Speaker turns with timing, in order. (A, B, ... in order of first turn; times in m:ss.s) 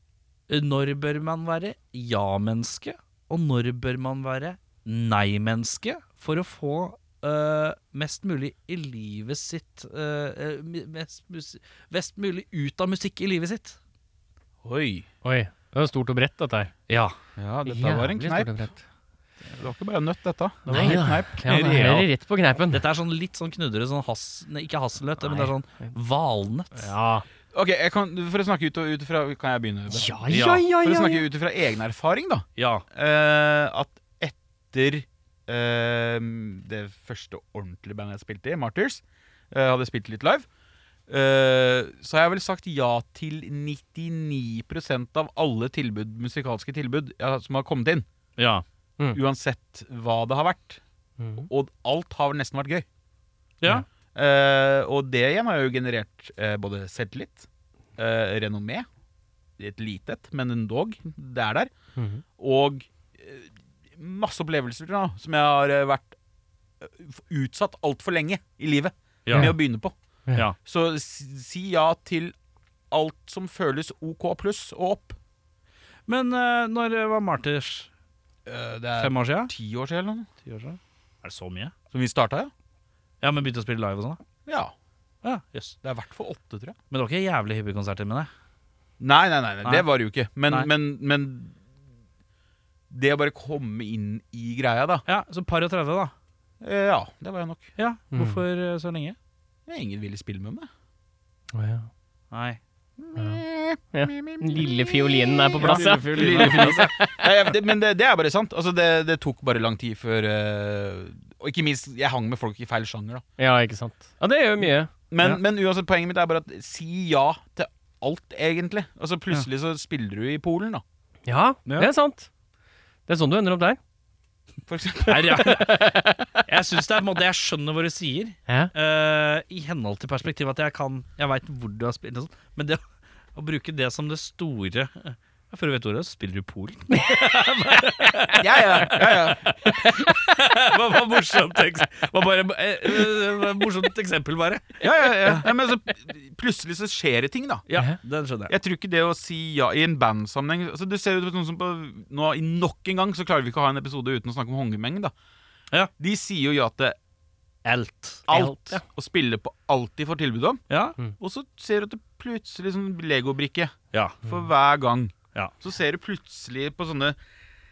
0:00.5-0:13.8 A
0:14.6-0:15.1 B
0:15.2-0:16.7 C
0:16.9-0:17.2 A
0:17.4-0:18.6 B
0:17.6-0:18.8 C
0:19.4-0:21.8 B
0:20.7-0:22.0 A
0:20.7-0:22.8 C
0:22.7-0:26.9 A
0:25.2-0:25.5 C
0:26.7-0:27.2 C
0:27.5-0:40.4 B
0:29.9-0:31.2 C
0:30.3-0:30.6 A
0:32.6-0:32.8 A
0:41.1-0:48.0 B
0:48.4-0:48.6 A
0:49.1-0:50.8 B
0:51.2-0:51.5 C
0:51.5-0:52.8 B
0:54.1-0:58.9 B
0:59.6-1:01.7 B
1:02.0-1:02.2 C
1:02.4-1:06.2 B
1:06.8-1:09.9 B
1:09.2-1:09.5 A
1:10.6-1:12.3 B
1:12.9-1:15.2 B
1:16.1-1:17.9 A
1:18.4-1:20.3 B
1:19.0-1:19.5 A
1:20.4-1:21.7 A
1:21.9-1:22.5 B
1:23.2-1:24.2 A
1:24.4-1:24.7 B
1:25.2-1:25.8 A
1:25.8-1:26.8 B
1:26.9-1:28.3 A
1:29.0-1:31.6 B
1:32.9-1:35.0 B
1:35.1-1:36.1 A
1:36.6-1:37.7 B
1:37.8-1:39.2 A
1:38.1-1:38.4 C
1:39.7-1:40.7 B
1:41.5-1:41.9 C
1:42.3-1:42.6 A
1:43.0-1:44.8 B
1:43.2-1:43.4 C
1:43.9-1:47.3 C
1:45.5-1:53.2 B
1:45.6-1:46.9 A
1:53.4-1:54.9 C
1:55.1-2:00.8 B
2:01.2-2:02.3 C
2:01.6-2:01.9 A
2:03.1-2:03.8 C
2:04.7-2:05.5 B
2:05.0-2:05.9 A
2:05.4-2:06.3 C
2:06.4-2:12.8 A
2:13.3-2:25.4 A
2:18.4-2:19.5 B
2:24.8-2:27.6 B
2:27.7-2:28.5 A
2:28.5-2:35.1 B
2:36.0-2:37.0 B
2:37.6-2:38.3 A
2:38.3-2:38.8 C
2:38.3-2:40.6 B
2:40.7-2:41.0 A
2:41.2-2:47.2 B
2:43.9-2:44.2 A